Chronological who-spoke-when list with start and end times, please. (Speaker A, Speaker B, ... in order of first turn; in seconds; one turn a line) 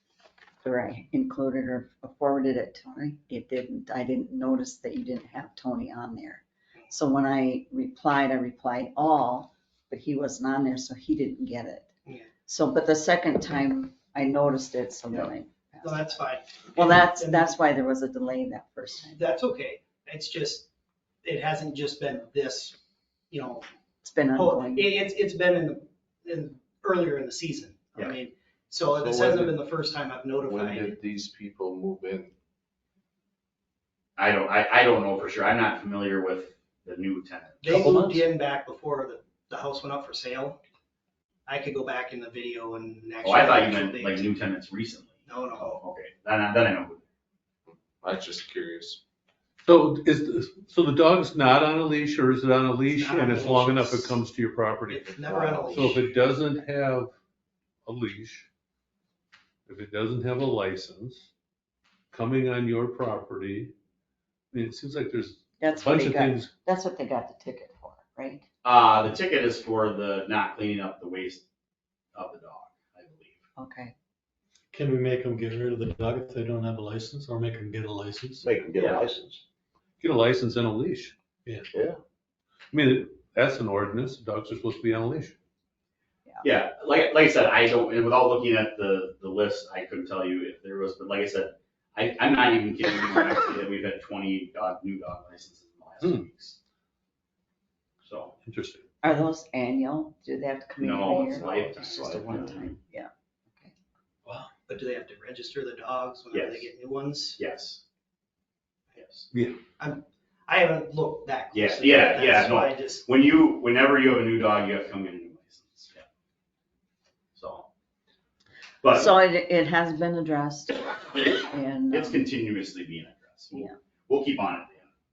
Speaker A: 0.6-11.9
Speaker A: 12.4-19.2
Speaker B: 15.8-17.6
Speaker B: 19.1-20.7
Speaker B: 21.2-22.8
Speaker B: 23.3-23.7
Speaker A: 24.0-24.9
Speaker B: 24.3-31.0
Speaker C: 28.9-29.6
Speaker C: 30.4-32.3
Speaker D: 34.2-37.6
Speaker B: 37.6-40.6
Speaker E: 37.7-38.2
Speaker B: 41.5-44.2
Speaker D: 43.2-47.0
Speaker B: 45.3-45.8
Speaker C: 47.7-49.0
Speaker F: 49.6-57.1
Speaker B: 52.9-54.2
Speaker B: 54.9-56.2
Speaker C: 55.2-56.0
Speaker F: 57.9-58.5
Speaker F: 59.7-61.2
Speaker F: 62.1-63.7
Speaker F: 64.5-66.5
Speaker A: 65.6-68.4
Speaker D: 68.6-71.4
Speaker D: 72.1-73.4
Speaker A: 73.6-73.9
Speaker E: 74.7-78.5
Speaker G: 78.4-79.4
Speaker D: 78.7-79.1
Speaker F: 80.0-81.1
Speaker F: 82.7-85.3
Speaker D: 86.4-96.6
Speaker D: 98.0-98.3
Speaker F: 98.4-98.8
Speaker A: 99.0-103.7
Speaker D: 100.8-102.7
Speaker G: 101.3-102.5
Speaker B: 104.7-107.4
Speaker D: 106.3-106.7
Speaker D: 107.3-107.8
Speaker D: 109.0-109.2
Speaker F: 109.3-109.6
Speaker B: 109.8-113.0
Speaker D: 111.5-116.0
Speaker D: 117.3-117.7
Speaker D: 118.8-119.1
Speaker A: 118.9-122.2
Speaker D: 121.9-124.9